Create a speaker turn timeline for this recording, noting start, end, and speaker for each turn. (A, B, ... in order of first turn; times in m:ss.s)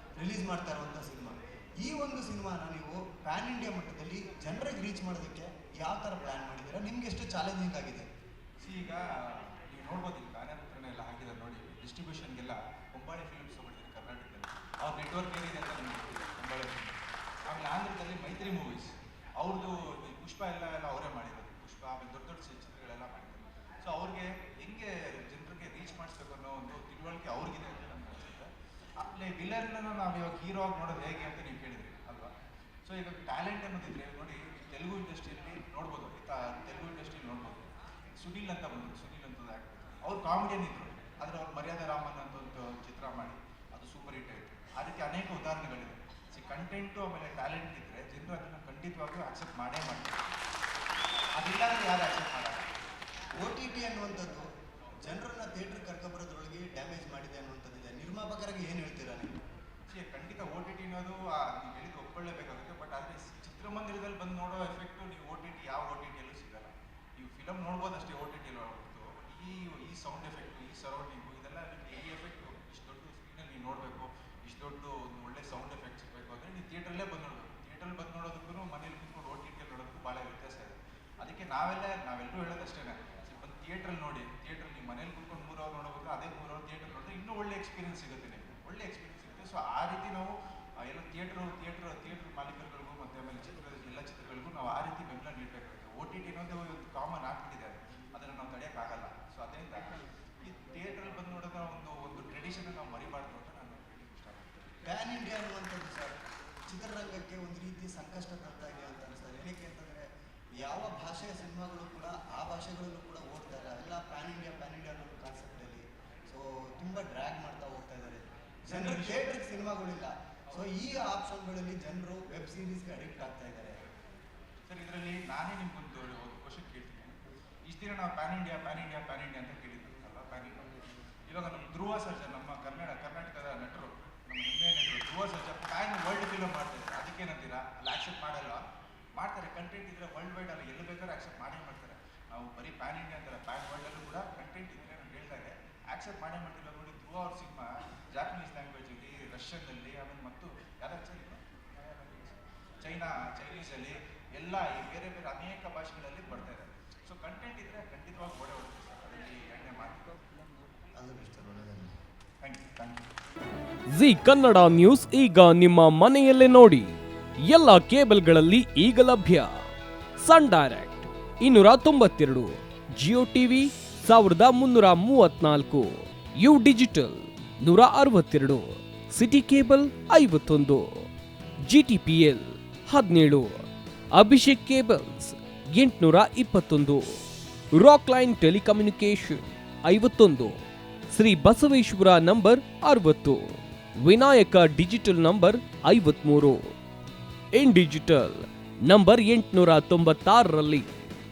0:00.2-0:08.1 A
0:08.6-0:32.3 B
0:32.8-0:50.2 B
0:51.4-0:52.7 B
0:53.4-0:54.5 A
0:55.0-0:59.4 A
0:59.9-1:44.5 B
1:44.8-1:50.1 A
1:50.6-2:03.8 A
1:58.7-1:59.3 B
2:04.7-2:10.6 B
2:11.3-2:18.6 B
2:19.2-2:40.3 B
2:41.0-2:42.0 A
2:42.4-2:43.1 B
2:43.9-2:49.7 C
2:50.2-3:01.1 C
3:01.6-3:07.2 C
3:07.8-3:16.7 C
3:17.5-3:20.9 C